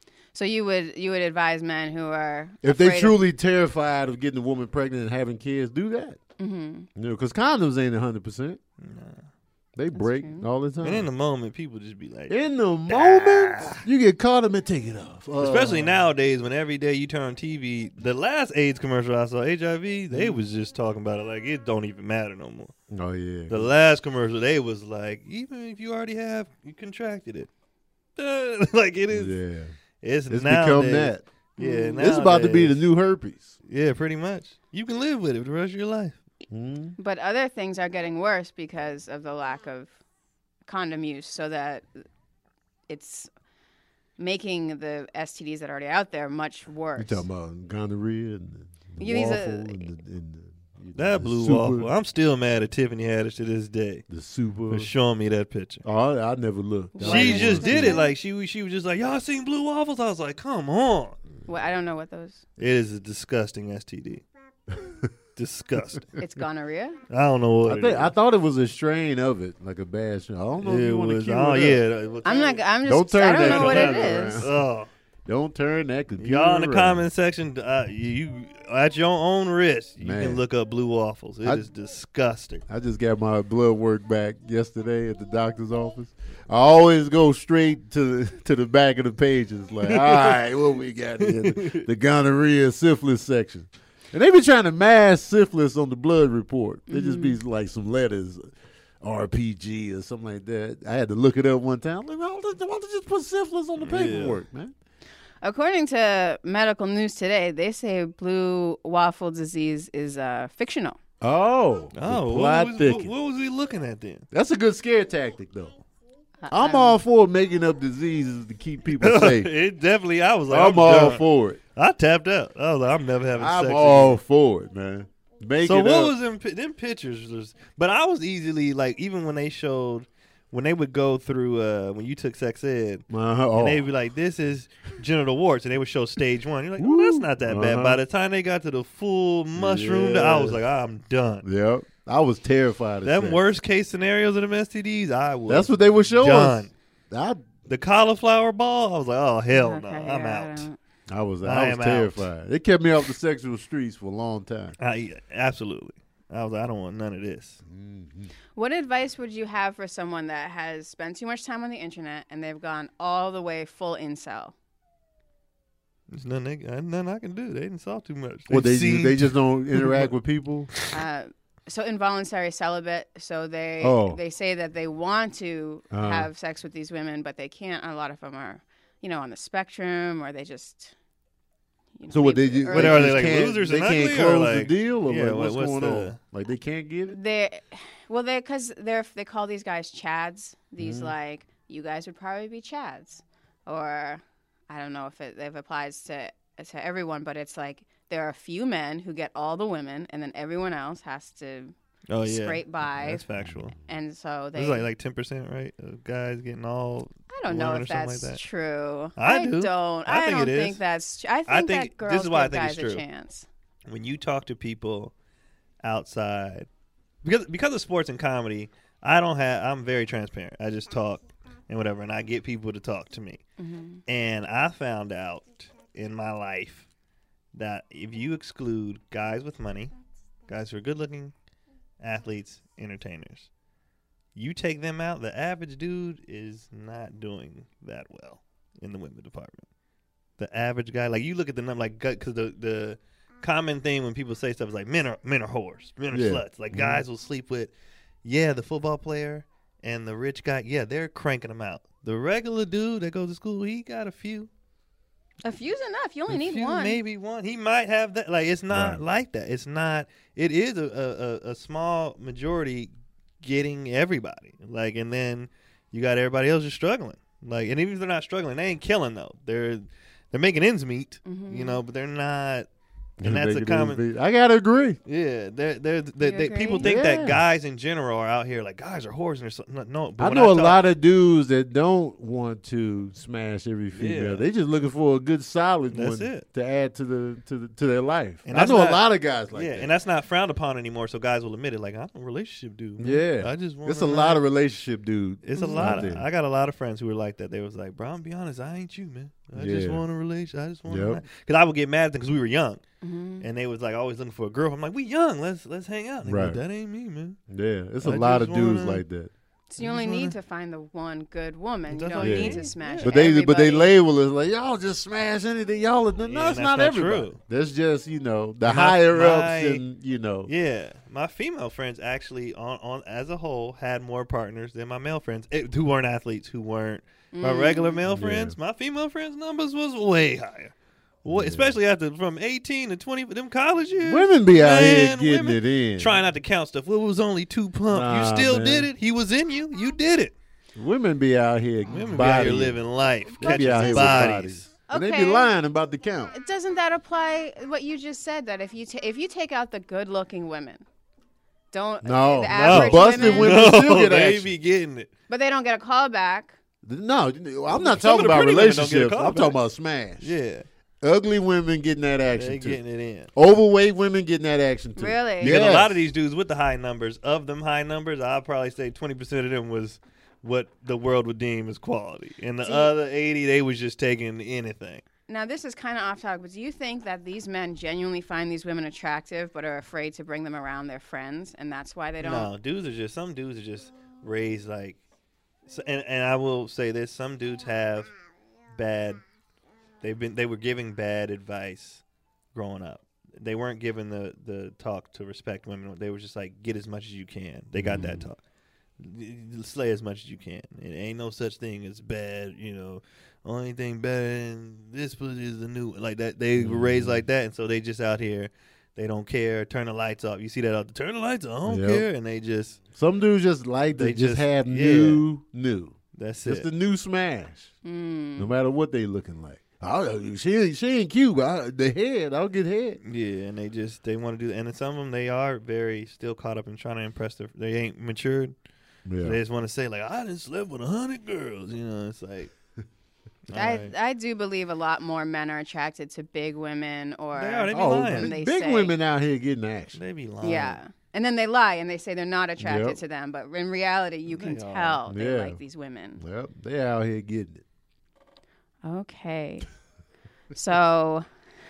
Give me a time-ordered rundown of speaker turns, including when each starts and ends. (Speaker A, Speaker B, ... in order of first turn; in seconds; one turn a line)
Speaker A: 0.3-3.2
Speaker B: 2.6-6.2
Speaker A: 6.4-6.9
Speaker B: 6.9-8.6
Speaker C: 8.8-9.3
Speaker B: 9.8-11.1
Speaker A: 9.9-10.5
Speaker C: 10.8-12.4
Speaker B: 12.3-15.9
Speaker C: 12.9-13.8
Speaker C: 15.4-22.7
Speaker B: 22.9-23.7
Speaker C: 23.5-27.5
Speaker C: 28.2-29.4
Speaker B: 29.1-29.7
Speaker C: 30.0-32.8
Speaker B: 30.3-31.2
Speaker A: 31.6-32.1
Speaker B: 32.0-33.6
Speaker C: 33.6-36.1
Speaker B: 36.5-36.9
Speaker A: 37.0-39.9
Speaker A: 40.6-41.9
Speaker A: 42.9-43.3
Speaker A: 44.2-47.2
Speaker B: 47.0-51.9
Speaker A: 49.0-49.9
Speaker C: 51.0-54.0
Speaker B: 54.1-54.9
Speaker C: 54.7-55.8
Speaker B: 55.8-58.0
Speaker A: 57.0-58.1
Speaker C: 57.0-61.2
Speaker A: 61.5-62.4
Speaker C: 62.6-64.2
Speaker B: 64.8-65.1
Speaker C: 65.3-66.1
Speaker A: 66.2-67.0
Speaker C: 67.1-68.1
Speaker B: 67.6-71.8
Speaker C: 70.6-72.6
Speaker A: 72.2-74.5
Speaker B: 72.8-74.6
Speaker C: 73.4-74.9
Speaker B: 75.2-77.0
Speaker C: 76.2-82.6
Speaker B: 80.0-80.4
Speaker B: 82.7-98.4
Speaker C: 89.8-90.4
Speaker C: 91.2-91.8
Speaker A: 96.9-97.4
Speaker B: 99.0-104.7
Speaker C: 103.8-104.4
Speaker A: 105.4-111.0
Speaker B: 111.2-113.1
Speaker C: 111.9-114.3
Speaker B: 114.3-115.8
Speaker A: 116.4-117.0
Speaker B: 116.5-119.5
Speaker C: 119.0-121.2
Speaker B: 120.5-121.6
Speaker C: 121.7-124.2
Speaker B: 123.4-126.1
Speaker C: 125.6-133.0
Speaker B: 133.1-133.8
Speaker C: 133.6-141.4
Speaker B: 136.8-138.0
Speaker B: 139.5-140.6
Speaker B: 141.4-143.4
Speaker C: 143.0-146.7
Speaker B: 145.5-147.5
Speaker C: 147.7-150.7
Speaker A: 149.5-150.8
Speaker B: 151.1-154.8
Speaker C: 151.4-152.3
Speaker C: 154.8-157.6
Speaker B: 157.7-158.3
Speaker A: 158.6-164.5
Speaker C: 166.1-170.1
Speaker B: 168.5-170.7
Speaker A: 170.9-180.9
Speaker B: 173.8-174.2
Speaker B: 175.9-176.3
Speaker A: 182.0-183.3
Speaker B: 182.1-187.2
Speaker C: 182.7-186.2
Speaker A: 187.1-201.7
Speaker B: 190.8-191.1
Speaker C: 202.1-203.7
Speaker A: 202.2-203.2
Speaker A: 203.8-204.9
Speaker C: 204.6-208.4
Speaker A: 207.3-213.5
Speaker C: 209.2-210.8
Speaker C: 211.5-213.0
Speaker C: 213.8-215.1
Speaker C: 215.8-216.7
Speaker C: 217.2-223.4
Speaker A: 223.6-224.0
Speaker C: 224.1-226.9
Speaker C: 227.5-229.9
Speaker C: 230.5-231.3
Speaker C: 232.0-233.5
Speaker C: 234.3-239.7
Speaker C: 240.4-247.7
Speaker B: 246.1-247.0
Speaker C: 248.2-254.5
Speaker A: 255.4-257.0
Speaker C: 256.3-272.7
Speaker B: 258.7-259.0
Speaker A: 271.2-271.8
Speaker B: 273.2-275.0
Speaker C: 273.2-274.0
Speaker C: 275.1-280.8
Speaker A: 276.2-276.9
Speaker B: 276.8-277.4
Speaker B: 280.2-289.9
Speaker C: 283.9-284.4
Speaker C: 285.9-286.4
Speaker C: 288.4-294.4
Speaker B: 293.0-296.3
Speaker C: 295.4-302.8
Speaker A: 295.6-296.1
Speaker B: 299.5-300.0
Speaker B: 300.9-301.2
Speaker A: 303.0-303.5
Speaker C: 303.4-307.4
Speaker B: 306.2-306.6
Speaker B: 307.5-309.3
Speaker C: 308.0-309.0
Speaker A: 309.7-313.9
Speaker C: 309.8-310.4
Speaker C: 311.9-313.3
Speaker B: 312.2-320.5
Speaker C: 316.2-317.4
Speaker C: 318.6-319.8
Speaker C: 320.5-340.3
Speaker A: 327.3-328.0
Speaker B: 328.1-328.6
Speaker B: 331.2-331.7
Speaker B: 334.1-336.2
Speaker B: 337.9-338.9
Speaker B: 340.8-346.3
Speaker C: 341.9-344.6
Speaker A: 343.4-344.3
Speaker A: 344.9-345.5
Speaker A: 346.3-350.8
Speaker A: 351.7-353.6
Speaker B: 352.0-354.5
Speaker C: 352.5-355.1
Speaker A: 355.3-356.6
Speaker B: 356.8-360.4
Speaker C: 357.7-359.6
Speaker C: 360.2-360.7
Speaker B: 361.0-362.8
Speaker C: 362.4-363.3
Speaker B: 363.3-366.0
Speaker A: 365.0-365.6
Speaker C: 365.4-375.0
Speaker A: 372.6-372.9
Speaker A: 375.3-382.5
Speaker C: 382.2-385.0
Speaker C: 385.7-388.1
Speaker C: 388.7-389.2
Speaker C: 390.0-398.4
Speaker B: 397.8-398.3
Speaker C: 399.0-412.8
Speaker B: 406.6-407.2
Speaker B: 411.7-412.1
Speaker B: 412.9-417.7
Speaker C: 413.9-415.2
Speaker C: 416.1-416.7
Speaker A: 417.8-418.5
Speaker B: 418.4-423.0
Speaker C: 423.0-428.5
Speaker B: 429.1-429.4
Speaker C: 429.2-432.5
Speaker C: 433.5-433.9
Speaker A: 433.5-438.9
Speaker C: 437.3-438.3
Speaker B: 437.7-440.0
Speaker C: 439.9-440.8
Speaker A: 440.4-446.2
Speaker B: 442.6-443.0
Speaker C: 444.3-445.0
Speaker B: 445.1-445.6
Speaker B: 446.2-447.6
Speaker A: 448.8-449.7
Speaker A: 450.5-451.2